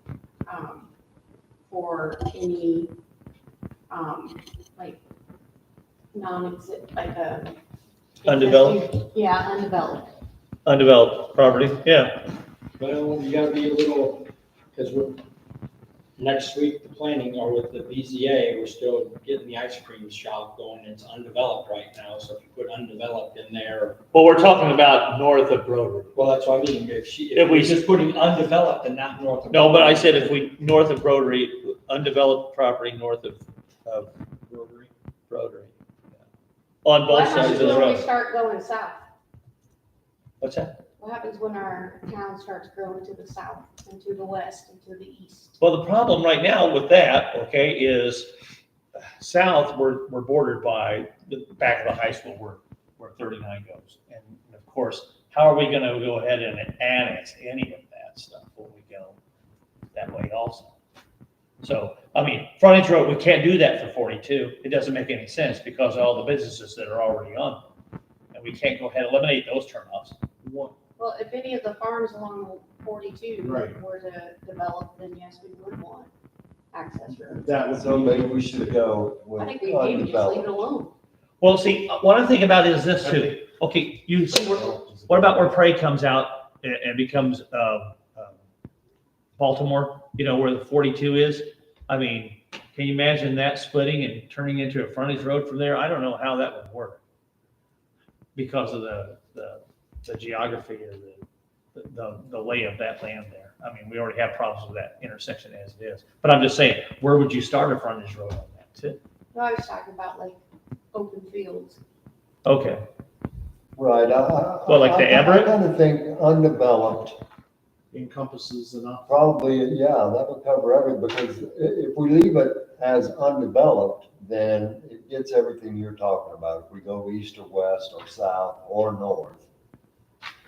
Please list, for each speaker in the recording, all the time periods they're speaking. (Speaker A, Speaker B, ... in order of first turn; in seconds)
Speaker A: 0.5-0.9, 1.7-2.9, 3.9-5.0, 6.1-7.6, 8.2-10.1, 37.0-39.0, 41.0-45.5, 71.0-76.1, 76.7-77.6, 79.4-80.9, 109.3-110.4, 110.9-111.8
Speaker B: 8.2-8.8, 10.6-12.2, 24.1-26.2, 27.3-27.8, 29.5-36.2, 36.8-38.1, 40.4-40.7, 45.6-48.3, 48.9-59.1, 59.9-60.7, 61.6-67.6, 68.3-70.2, 81.4-88.3, 89.4-97.0, 98.3-101.2, 101.7-109.0, 112.4-112.8, 114.7-115.6
Speaker C: 12.8-15.2, 16.2-24.0, 26.1-30.4, 37.3-37.7
Speaker D: 70.4-70.7, 73.4-73.8, 77.3-78.7, 83.0-83.3, 84.3-85.5, 117.9-119.1
Speaker E: 77.7-80.6, 113.8-117.2, 119.1-129.4